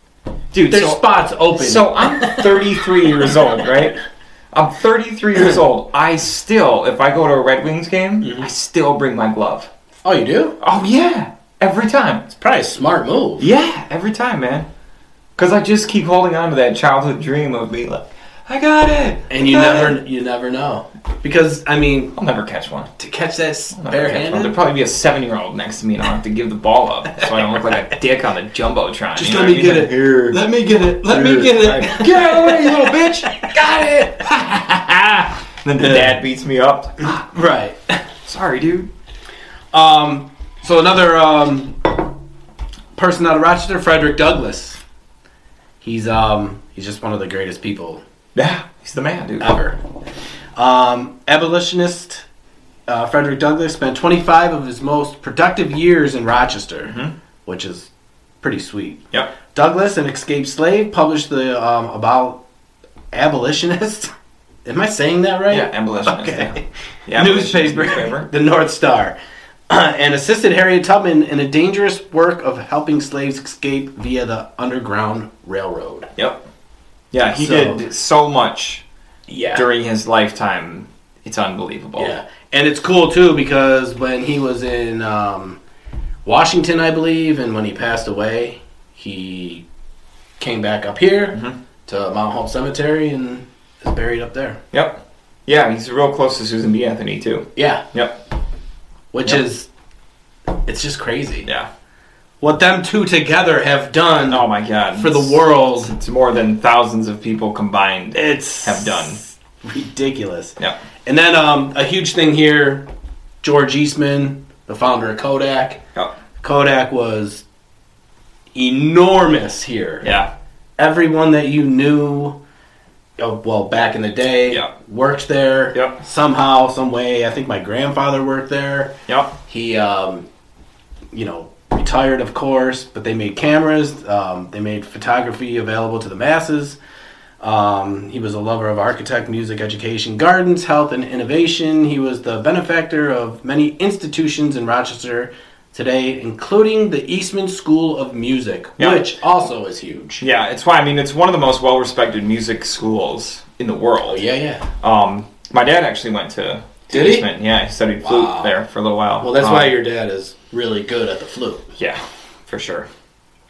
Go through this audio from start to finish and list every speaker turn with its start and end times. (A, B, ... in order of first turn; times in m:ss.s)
0:00.5-0:04.0 A
0:00.7-0:03.4 B
0:04.5-0:09.7 A
0:08.2-0:08.5 B
0:10.0-0:10.6 B
0:10.6-0:12.2 A
0:12.3-0:13.5 B
0:13.4-0:14.7 A
0:15.4-0:20.0 A
0:19.3-0:22.1 B
0:22.1-0:22.9 A
0:23.0-0:24.6 B
0:23.7-0:30.4 A
0:29.2-0:33.5 B
0:31.0-0:37.2 A
0:35.8-0:36.2 B
0:37.0-0:38.0 B
0:38.2-0:38.9 A
0:39.7-0:42.0 B
0:43.0-0:44.8 B
0:45.8-0:48.0 B
0:48.3-0:49.5 A
0:49.4-0:49.8 B
0:50.6-0:52.2 B
0:52.9-0:57.9 B
0:56.9-0:57.1 A
0:58.4-1:02.4 B
1:03.1-1:04.1 B
1:04.6-1:09.2 B
1:05.5-1:08.3 A
1:09.7-1:16.1 B
1:16.2-1:16.4 A
1:17.1-1:18.8 A
1:17.4-1:17.8 B
1:19.3-1:19.6 B
1:19.5-1:22.2 A
1:22.0-1:25.6 B
1:26.2-1:29.6 B
1:30.4-1:34.6 B
1:34.7-1:38.2 A
1:37.6-1:37.8 B
1:39.1-1:39.7 B
1:40.6-1:41.5 B
1:41.4-1:41.7 A
1:42.4-1:45.9 B
1:44.3-1:49.2 A
1:48.1-1:52.8 B
1:53.4-1:55.8 B
1:56.4-1:57.4 B
1:58.5-2:00.1 B
2:00.0-2:00.3 A
2:00.8-2:02.4 B
2:03.2-2:08.9 B
2:05.7-2:06.0 A
2:09.1-2:09.4 A
2:09.5-2:10.2 B
2:11.1-2:16.8 B
2:17.4-2:30.2 B
2:28.8-2:29.1 A
2:30.2-2:34.2 A
2:34.1-2:34.7 B
2:34.8-2:39.7 A
2:36.9-2:37.3 B
2:38.0-2:38.5 B
2:39.2-2:41.7 B
2:41.8-2:42.9 A